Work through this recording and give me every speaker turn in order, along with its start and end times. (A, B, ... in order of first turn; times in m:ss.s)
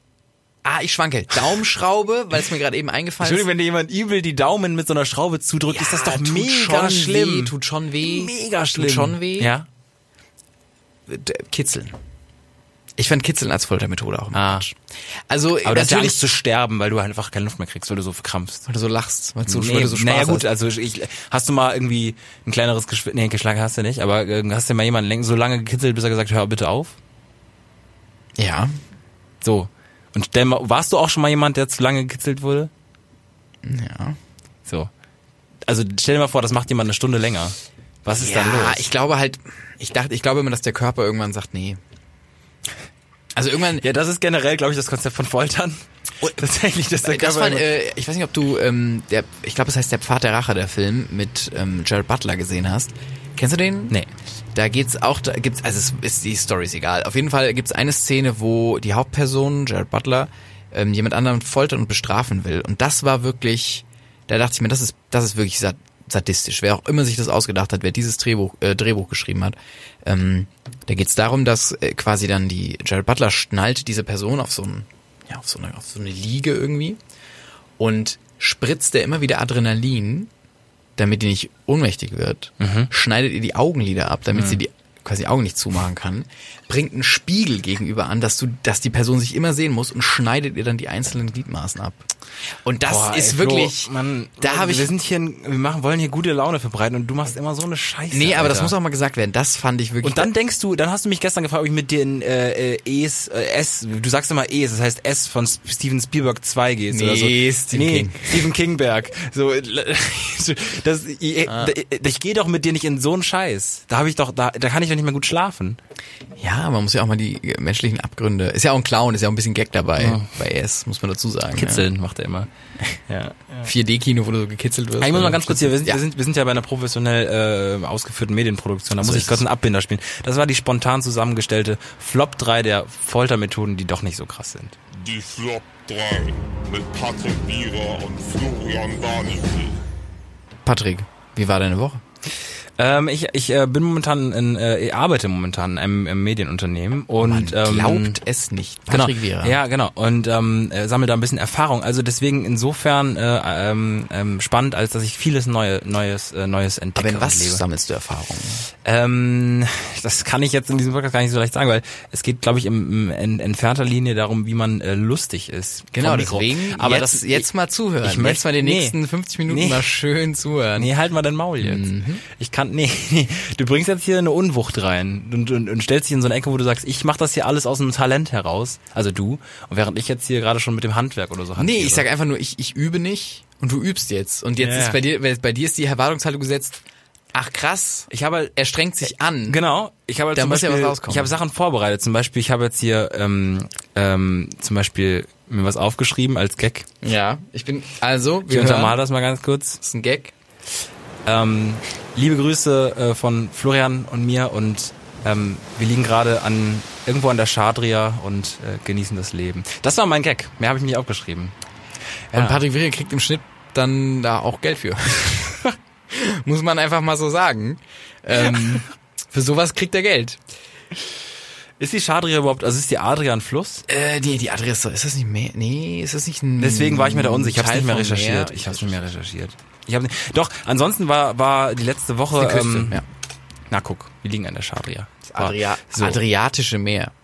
0:00.6-0:03.5 A
0:03.2-0:09.7 B
0:05.7-0:09.5 A
0:11.1-0:11.9 A
0:13.0-0:14.8 A
0:14.3-0:14.6 B
0:15.3-0:16.2 A
0:15.6-0:18.6 B
0:18.7-0:20.5 A
0:19.4-0:27.0 B
0:28.4-0:28.7 A
0:29.4-0:32.7 B
0:33.6-0:34.2 A
0:34.6-0:34.9 B
0:35.6-0:38.9 B
0:38.1-0:41.8 A
0:43.3-0:43.8 A
0:43.8-0:47.7 B
0:47.0-0:54.0 A
0:54.5-1:17.0 A
1:17.8-1:20.3 A
1:21.0-1:32.1 A
1:22.6-1:22.9 B
1:24.3-1:24.6 B
1:32.6-1:34.9 A
1:32.8-1:38.7 B
1:38.1-1:40.3 A
1:40.0-1:55.8 B
1:46.9-1:48.5 A
1:51.4-1:51.7 A
1:56.4-2:01.9 A
2:00.0-2:00.3 B
2:01.5-2:02.5 B
2:03.1-2:03.6 B
2:03.6-2:06.0 A
2:05.0-2:14.8 B
2:09.0-2:09.4 A
2:14.9-2:19.8 C
2:20.6-2:22.0 A
2:22.8-2:28.2 B
2:27.2-2:29.6 A
2:28.9-2:37.6 B
2:37.0-2:38.6 A
2:38.8-2:47.5 B
2:45.9-2:50.9 A
2:48.0-2:49.9 B
2:50.8-3:02.1 B
2:51.6-2:52.2 A
3:01.6-3:06.8 A
3:04.6-3:05.0 B
3:07.3-3:09.6 A
3:08.1-3:08.5 B
3:09.5-3:16.9 B
3:10.3-3:11.3 A
3:17.0-3:19.0 A
3:18.5-3:19.8 B
3:19.8-3:20.3 A
3:21.2-3:31.5 B
3:32.3-3:32.6 B
3:32.3-3:40.4 A
3:41.8-3:43.8 B
3:43.9-3:49.0 A
3:46.6-3:53.0 B
3:52.4-3:53.0 A
3:53.7-3:56.2 B
3:55.3-3:57.1 A